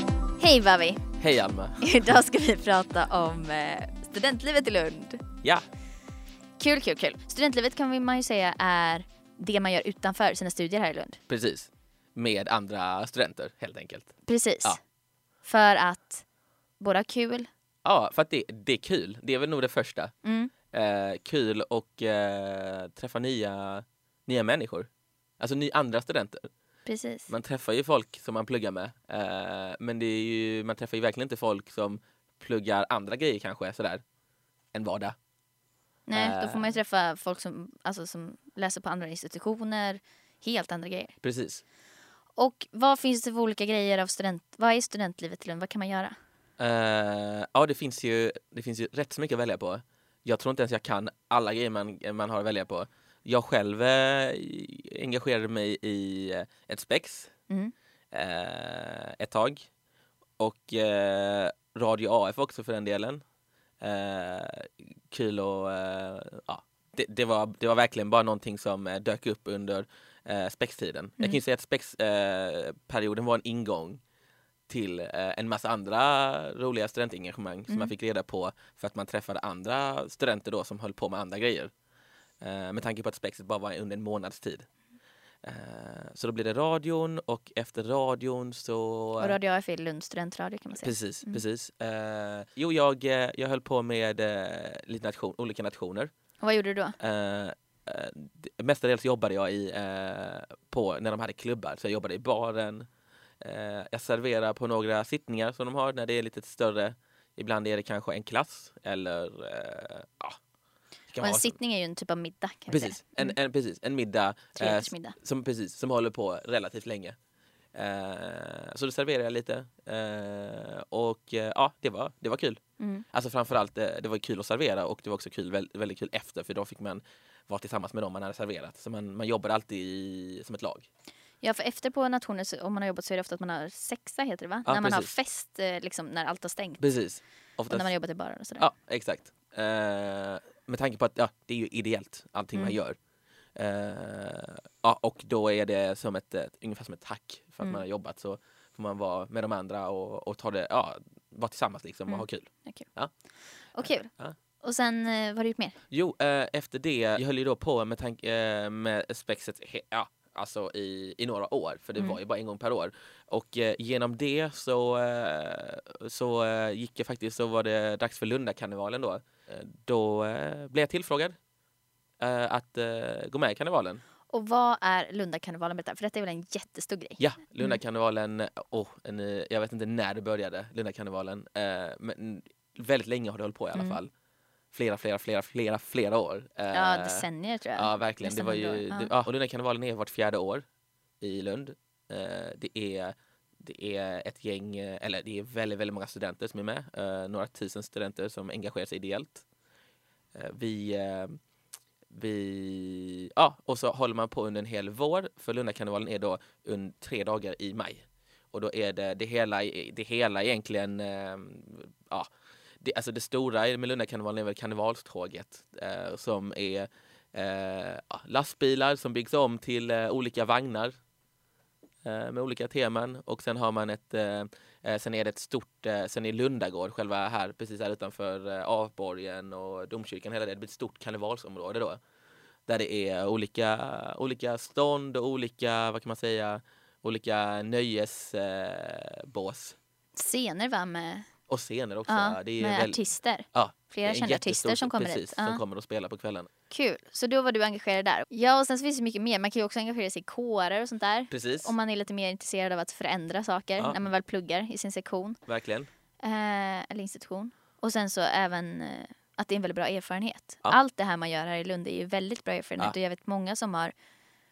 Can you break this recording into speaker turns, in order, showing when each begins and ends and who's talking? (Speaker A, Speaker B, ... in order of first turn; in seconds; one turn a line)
Speaker A: 0.4-1.0
Speaker B: 1.2-1.9
Speaker A: 1.8-5.2
Speaker A: 6.6-11.2
Speaker B: 11.3-14.1
Speaker A: 14.2-14.8
Speaker A: 15.4-16.2
Speaker A: 16.8-17.5
Speaker B: 17.8-20.1
Speaker A: 20.2-20.5
Speaker B: 20.7-24.9
Speaker B: 25.4-26.5
Speaker A: 26.9-27.3
Speaker B: 27.3-34.0
Speaker B: 34.7-35.1
Speaker A: 36.1-41.1
Speaker B: 36.1-36.7
Speaker B: 41.2-41.6
Speaker A: 42.4-46.1
Speaker B: 46.6-57.3
Speaker B: 58.1-59.7
Speaker B: 60.4-63.2
Speaker B: 63.8-74.0
Speaker B: 74.7-81.7
Speaker B: 82.4-84.7
Speaker B: 85.4-89.4
Speaker A: 89.2-91.4
Speaker B: 90.8-96.1
Speaker A: 96.4-97.0
Speaker B: 97.0-102.9
Speaker B: 103.4-110.4
Speaker B: 111.1-111.5
Speaker A: 111.2-113.3
Speaker B: 112.7-117.2
Speaker A: 114.6-115.2
Speaker B: 117.8-122.6
Speaker A: 122.8-123.0
Speaker B: 123.1-130.9
Speaker A: 131.4-136.8
Speaker B: 134.7-135.1
Speaker B: 136.8-137.9
Speaker A: 137.7-138.6
Speaker B: 138.6-143.0
Speaker B: 143.6-153.1
Speaker A: 152.1-152.9
Speaker A: 153.8-154.1
Speaker B: 153.8-154.3
Speaker A: 154.6-155.8
Speaker B: 155.9-171.3
Speaker B: 172.2-174.0
Speaker A: 174.3-177.8
Speaker B: 177.2-184.1
Speaker A: 183.7-184.0
Speaker B: 184.7-190.6
Speaker A: 186.7-189.1
Speaker B: 191.2-199.4
Speaker B: 200.3-201.4
Speaker B: 202.1-212.3
Speaker B: 212.8-220.9
Speaker B: 222.0-232.0
Speaker B: 232.7-239.8
Speaker A: 240.2-241.3
Speaker B: 241.5-243.0
Speaker A: 242.1-245.6
Speaker B: 243.5-246.5
Speaker A: 246.7-255.4
Speaker B: 251.3-251.8
Speaker B: 255.5-255.9
Speaker A: 256.2-263.9